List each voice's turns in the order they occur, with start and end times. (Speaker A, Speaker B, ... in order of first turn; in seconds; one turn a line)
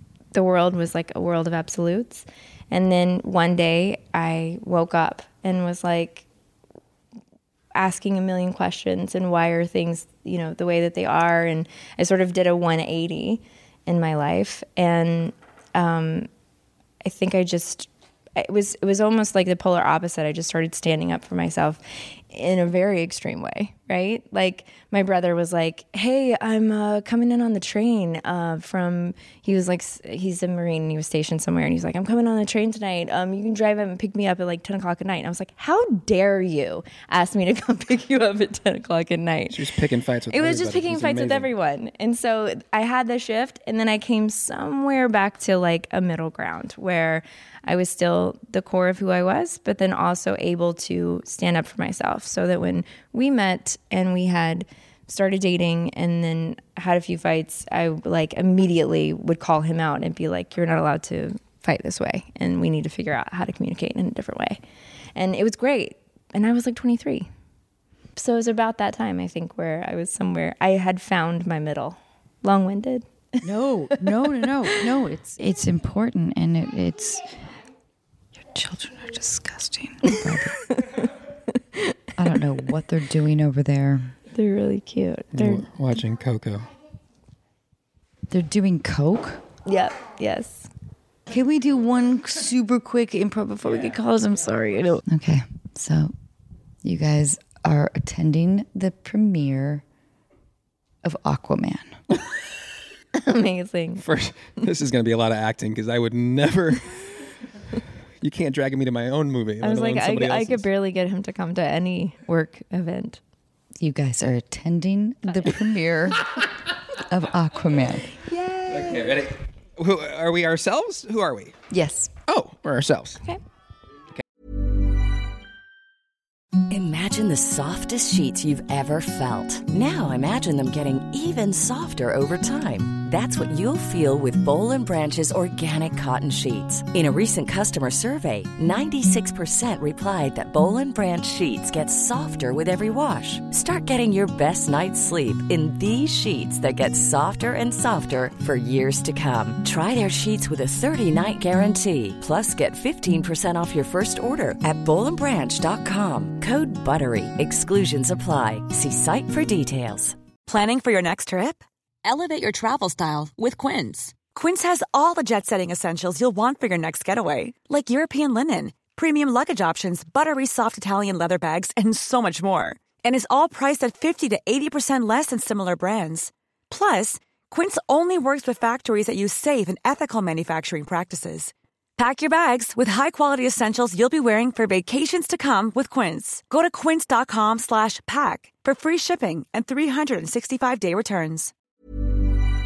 Speaker A: 0.3-6.2
Speaker A: 7.7-16.3
Speaker A: 17.0-39.7
Speaker B: 39.5-41.5
Speaker A: 40.3-64.6
Speaker A: 65.2-67.3
Speaker A: 68.2-73.1
Speaker C: 73.4-77.3
Speaker C: 78.3-80.6
Speaker A: 80.7-82.0
Speaker C: 82.2-84.1
Speaker A: 84.3-85.7
Speaker B: 85.3-86.7
Speaker C: 88.3-89.4
Speaker A: 89.7-90.7
Speaker C: 91.3-96.1
Speaker C: 96.8-99.8
Speaker C: 101.0-102.0
Speaker A: 103.1-104.0
Speaker B: 104.0-107.0
Speaker B: 108.2-110.7
Speaker A: 109.6-113.2
Speaker C: 113.8-118.1
Speaker A: 118.2-119.0
Speaker B: 118.7-121.5
Speaker C: 121.7-122.1
Speaker B: 122.3-123.2
Speaker D: 126.7-160.2
Speaker E: 160.4-191.5